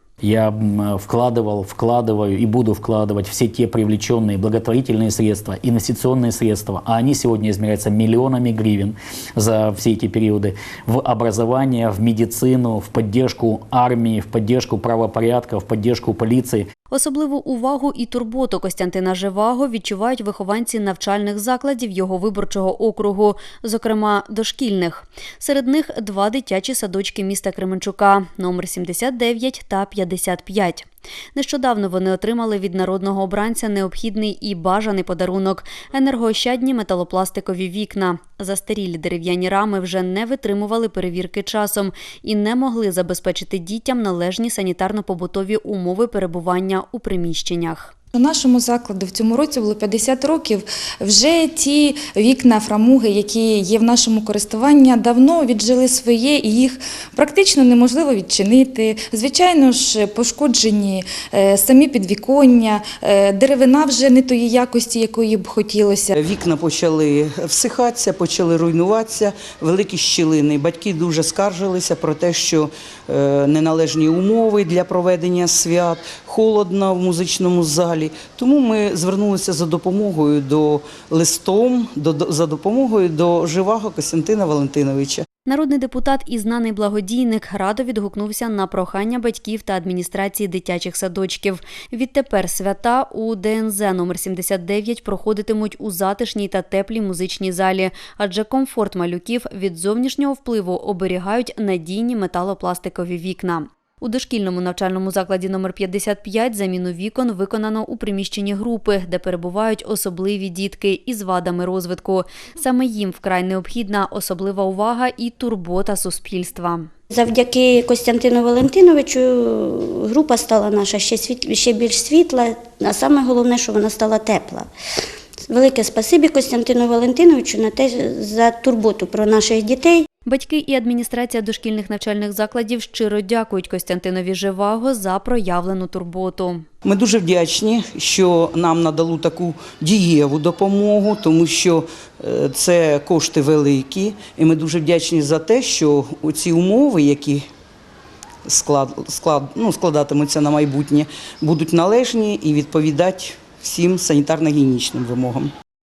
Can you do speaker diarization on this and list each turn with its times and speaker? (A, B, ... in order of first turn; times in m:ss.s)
0:00.2-0:16.7 A
0:16.9-0:47.9 B
0:48.1-1:06.1 C
1:06.2-1:25.2 D
1:25.5-1:56.9 B
1:57.1-2:04.7 E
2:05.4-2:10.1 E
2:10.3-2:16.6 B
2:16.8-2:27.4 D
2:28.5-2:35.5 D